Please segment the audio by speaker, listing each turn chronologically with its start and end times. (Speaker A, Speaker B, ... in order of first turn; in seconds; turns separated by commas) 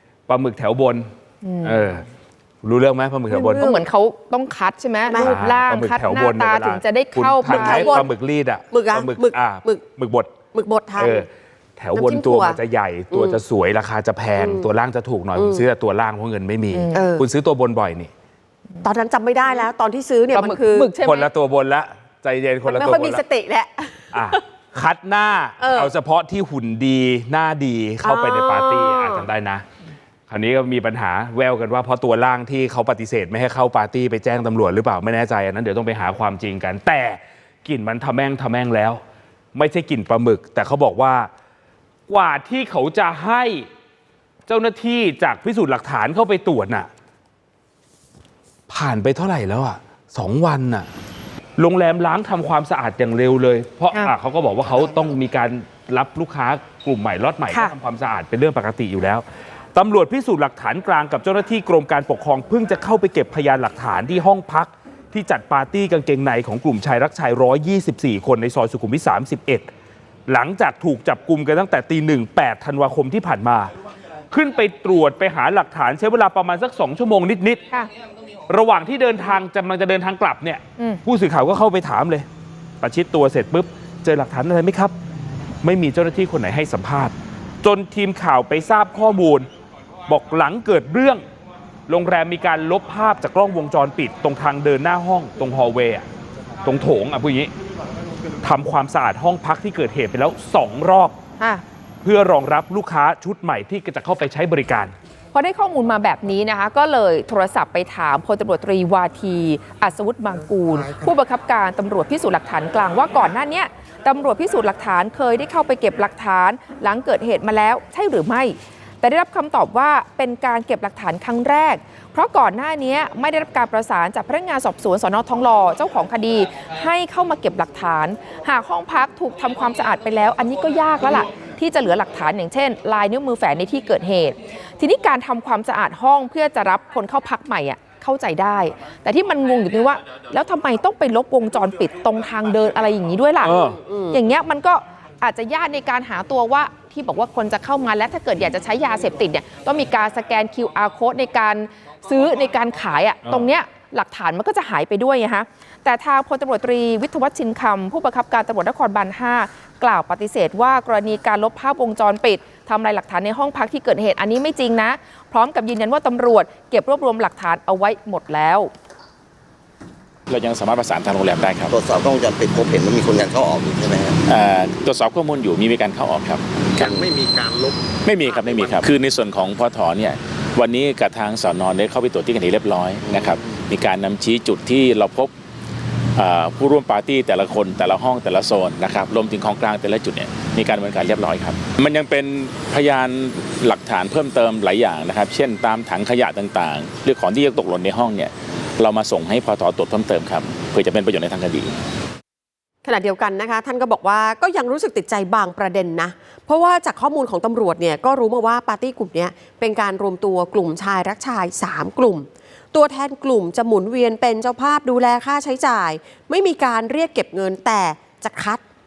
Speaker A: 0.3-1.1, Speaker B: 1.4-1.8, Speaker A: 1.6-2.0, Speaker A: 2.6-3.7, Speaker B: 3.3-8.0, Speaker C: 5.0-5.4, Speaker A: 5.2-10.3, Speaker C: 7.4-8.1, Speaker C: 8.7-9.8, Speaker C: 10.5-11.3, Speaker A: 11.0-18.1, Speaker C: 11.9-12.6, Speaker C: 13.1-13.4, Speaker C: 14.4-14.7, Speaker C: 15.3-15.7, Speaker B: 16.7-17.1, Speaker C: 16.9-17.2, Speaker C: 18.8-20.9, Speaker B: 20.3-21.3, Speaker A: 21.0-23.2, Speaker C: 22.6-24.4, Speaker A: 24.1-29.6, Speaker C: 25.6-25.9, Speaker C: 28.0-29.3, Speaker A: 30.3-39.0, Speaker A: 39.5-41.3, Speaker A: 42.1-43.7, Speaker A: 44.5-46.9, Speaker A: 48.7-50.9, Speaker A: 51.6-69.7, Speaker A: 70.3-73.7, Speaker A: 74.3-77.6, Speaker A: 78.5-82.2, Speaker A: 82.8-84.9, Speaker A: 85.6-89.5, Speaker A: 90.1-91.2, Speaker A: 91.9-96.0, Speaker A: 96.6-97.5, Speaker A: 98.4-101.2, Speaker B: 101.4-101.6, Speaker A: 102.0-104.9, Speaker B: 105.3-143.6, Speaker A: 143.4-143.8, Speaker C: 143.4-144.2, Speaker B: 144.1-168.7, Speaker A: 153.2-153.5, Speaker D: 170.3-171.7, Speaker E: 171.7-174.2, Speaker D: 174.3-177.1, Speaker E: 176.7-178.9, Speaker D: 178.0-185.3, Speaker E: 183.1-183.5, Speaker D: 186.2-201.7, Speaker C: 202.8-218.6